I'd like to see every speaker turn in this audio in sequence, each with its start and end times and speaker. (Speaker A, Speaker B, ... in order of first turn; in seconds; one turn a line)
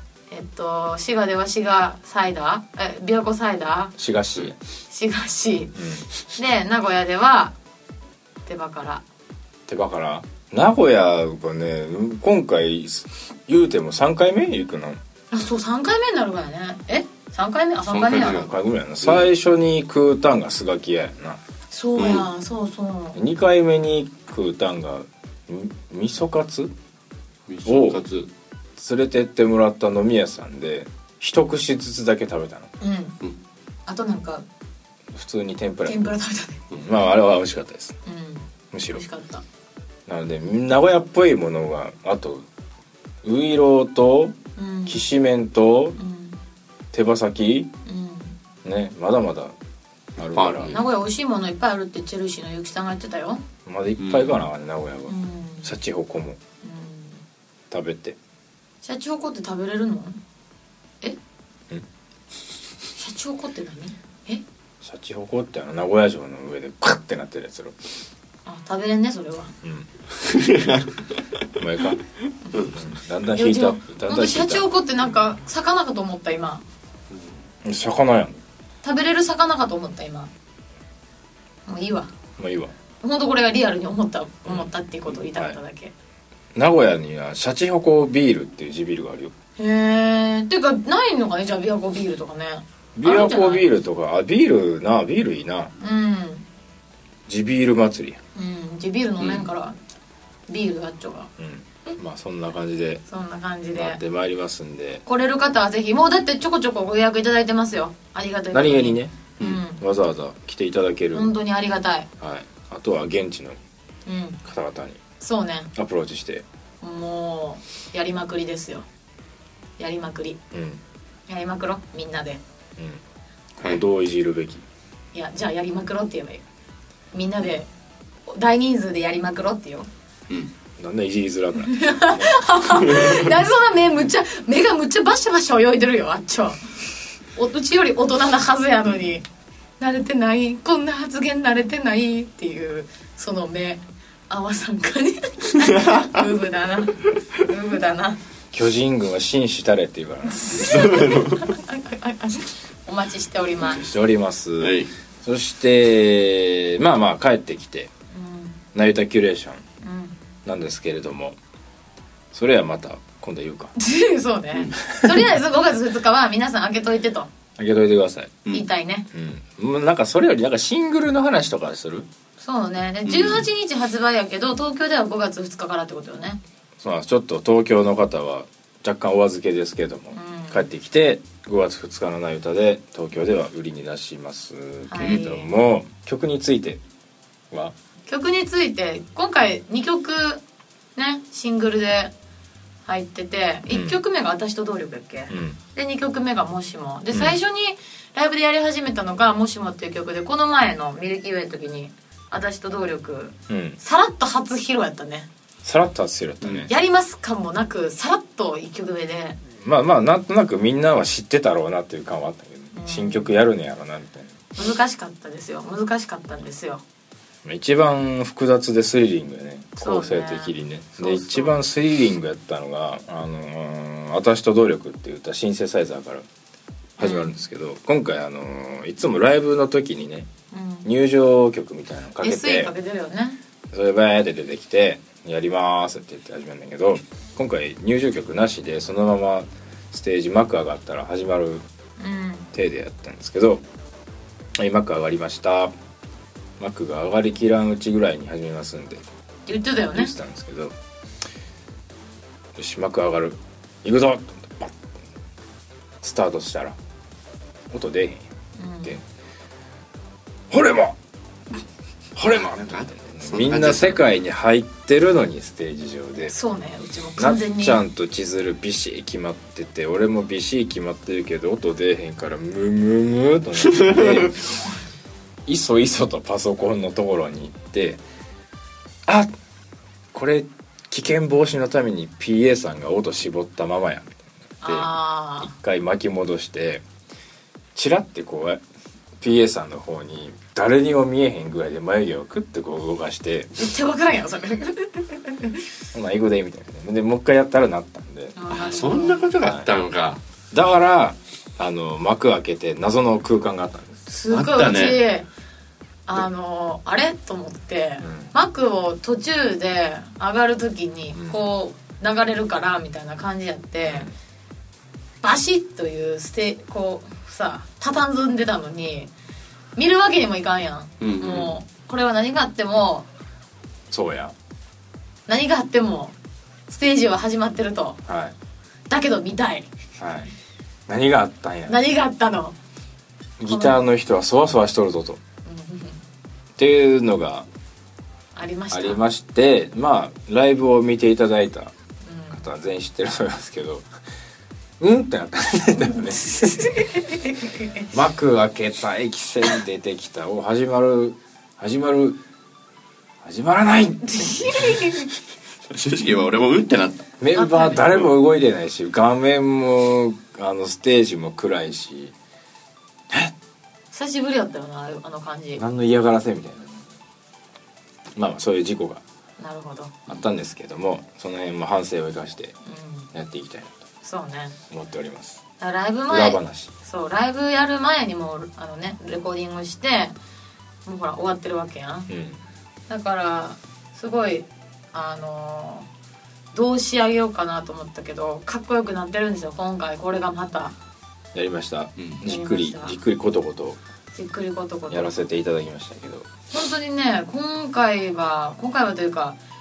Speaker A: 0.3-3.9
Speaker B: 4.0-4.5
Speaker A: 4.9-5.8
Speaker B: 5.7-6.1
Speaker A: 6.3-7.5
Speaker A: 8.4-9.0
Speaker B: 9.7-15.0
Speaker A: 15.3-18.5
Speaker C: 17.9-18.5
Speaker B: 18.1-21.4
Speaker A: 21.7-23.2
Speaker C: 21.9-22.3
Speaker B: 23.1-26.7
Speaker C: 27.5-28.3
Speaker B: 27.6-28.0
Speaker B: 28.8-32.7
Speaker A: 32.8-33.2
Speaker A: 33.9-34.4
Speaker B: 35.1-36.1
Speaker A: 35.8-36.6
Speaker B: 36.7-37.9
Speaker A: 38.0-39.4
Speaker B: 38.7-39.0
Speaker B: 40.1-42.5
Speaker B: 43.2-46.0
Speaker A: 44.5-45.0
Speaker A: 46.0-46.4
Speaker B: 46.9-47.7
Speaker A: 47.8-48.4
Speaker B: 48.6-49.5
Speaker B: 50.2-50.7
Speaker C: 50.3-50.9
Speaker A: 50.6-53.4
Speaker B: 53.6-56.4
Speaker C: 54.0-54.4
Speaker A: 55.1-55.7
Speaker A: 56.6-57.2
Speaker B: 57.7-58.2
Speaker A: 58.8-60.2
Speaker A: 63.0-64.4
Speaker B: 64.8-67.7
Speaker A: 68.5-69.5
Speaker C: 70.2-70.9
Speaker B: 71.5-72.0
Speaker A: 72.5-76.6
Speaker B: 72.6-74.7
Speaker B: 77.6-78.4
Speaker A: 78.8-80.3
Speaker A: 81.7-82.1
Speaker B: 82.4-82.7
Speaker A: 83.0-85.9
Speaker B: 85.3-85.6
Speaker B: 86.5-89.3
Speaker A: 89.6-93.7
Speaker B: 93.0-95.7
Speaker A: 95.8-96.5
Speaker B: 97.3-98.2
Speaker A: 98.3-99.8
Speaker B: 99.2-99.5
Speaker A: 100.5-101.3
Speaker B: 101.4-103.0
Speaker A: 103.1-104.0
Speaker B: 103.7-105.0
Speaker A: 105.0-109.8
Speaker B: 108.5-111.3
Speaker A: 111.1-112.1
Speaker B: 112.2-113.6
Speaker A: 114.0-114.4
Speaker B: 114.4-115.0
Speaker A: 115.2-115.7
Speaker B: 115.8-116.4
Speaker A: 116.8-118.9
Speaker A: 119.8-120.4
Speaker B: 120.5-120.8
Speaker A: 121.3-122.4
Speaker B: 123.6-124.6
Speaker A: 125.1-126.4
Speaker A: 127.1-127.7
Speaker A: 128.3-129.9
Speaker B: 130.8-132.9
Speaker A: 131.6-136.7
Speaker A: 137.3-139.2
Speaker A: 139.8-148.2
Speaker C: 145.8-146.1
Speaker B: 148.5-150.7
Speaker A: 150.3-153.9
Speaker C: 150.6-151.4
Speaker B: 153.6-157.9
Speaker C: 154.6-154.9
Speaker A: 158.1-158.6
Speaker B: 158.7-159.6
Speaker A: 159.8-160.2
Speaker B: 160.4-161.4
Speaker B: 162.3-163.7
Speaker A: 163.8-167.3
Speaker B: 167.6-168.4
Speaker A: 168.5-169.1
Speaker B: 169.1-172.1
Speaker A: 172.4-176.4
Speaker C: 173.0-173.5
Speaker B: 176.8-186.8
Speaker A: 180.1-180.7
Speaker A: 184.9-185.5
Speaker A: 188.1-190.4
Speaker A: 190.9-192.1
Speaker A: 192.9-205.3
Speaker B: 193.7-194.0
Speaker B: 195.3-195.6
Speaker B: 197.1-197.4
Speaker B: 203.5-203.8
Speaker B: 205.6-206.7
Speaker A: 206.7-209.4
Speaker B: 209.6-214.3
Speaker A: 212.7-213.3
Speaker A: 214.6-216.8
Speaker B: 217.4-226.2
Speaker A: 219.8-221.6
Speaker B: 227.0-230.3
Speaker A: 227.0-227.3
Speaker A: 230.5-230.9
Speaker B: 230.8-232.7
Speaker A: 232.2-233.4
Speaker B: 233.7-241.6
Speaker A: 242.0-242.5
Speaker B: 242.5-243.6
Speaker B: 244.6-245.7
Speaker B: 246.6-249.0
Speaker A: 249.4-250.1
Speaker B: 249.9-250.8
Speaker B: 252.6-254.9
Speaker B: 256.0-256.8
Speaker B: 257.7-258.3
Speaker A: 258.6-259.0
Speaker B: 260.5-260.9
Speaker B: 262.1-266.3
Speaker C: 262.3-264.0
Speaker A: 266.3-267.9
Speaker B: 267.2-274.6
Speaker C: 273.7-274.1
Speaker B: 275.5-278.0
Speaker B: 280.1-284.9
Speaker A: 284.6-285.5
Speaker B: 285.4-286.8
Speaker B: 287.8-288.6
Speaker B: 289.2-293.6
Speaker A: 293.6-295.6
Speaker B: 295.9-298.4
Speaker A: 298.4-299.3
Speaker C: 298.5-300.2
Speaker B: 300.5-304.1
Speaker A: 304.1-305.3
Speaker C: 304.3-305.0
Speaker A: 306.1-314.1
Speaker B: 308.0-308.3
Speaker B: 311.1-311.4
Speaker B: 313.9-314.1
Speaker A: 315.2-319.1
Speaker A: 319.8-323.1
Speaker C: 321.0-321.6
Speaker B: 323.9-324.3
Speaker A: 325.3-326.1
Speaker A: 326.7-328.0
Speaker B: 328.1-328.4
Speaker A: 328.9-329.7
Speaker B: 330.0-330.3
Speaker B: 330.9-331.8
Speaker A: 331.7-332.6
Speaker B: 333.4-335.2
Speaker A: 333.5-333.8
Speaker A: 335.4-336.0
Speaker B: 336.6-337.5
Speaker A: 338.4-339.0
Speaker B: 338.7-341.7
Speaker A: 342.0-342.4
Speaker B: 342.3-343.9
Speaker B: 344.8-346.8
Speaker A: 346.2-347.9
Speaker B: 347.9-352.2
Speaker B: 353.2-354.9
Speaker A: 354.0-355.1
Speaker C: 355.7-357.0
Speaker B: 357.2-362.1
Speaker A: 357.4-357.9
Speaker A: 363.9-365.6
Speaker B: 365.6-366.8
Speaker B: 368.1-369.0
Speaker A: 369.4-370.1
Speaker B: 370.1-372.5
Speaker A: 372.6-373.1
Speaker B: 373.1-373.8
Speaker A: 374.0-374.6
Speaker B: 374.7-375.4
Speaker A: 375.6-380.1
Speaker B: 376.1-376.7
Speaker A: 380.9-382.1
Speaker B: 382.1-382.4
Speaker A: 382.9-385.9
Speaker A: 386.5-390.8
Speaker B: 391.3-393.8
Speaker C: 392.0-392.2
Speaker A: 392.2-393.0
Speaker A: 394.1-395.1
Speaker B: 394.9-396.3
Speaker A: 396.5-399.4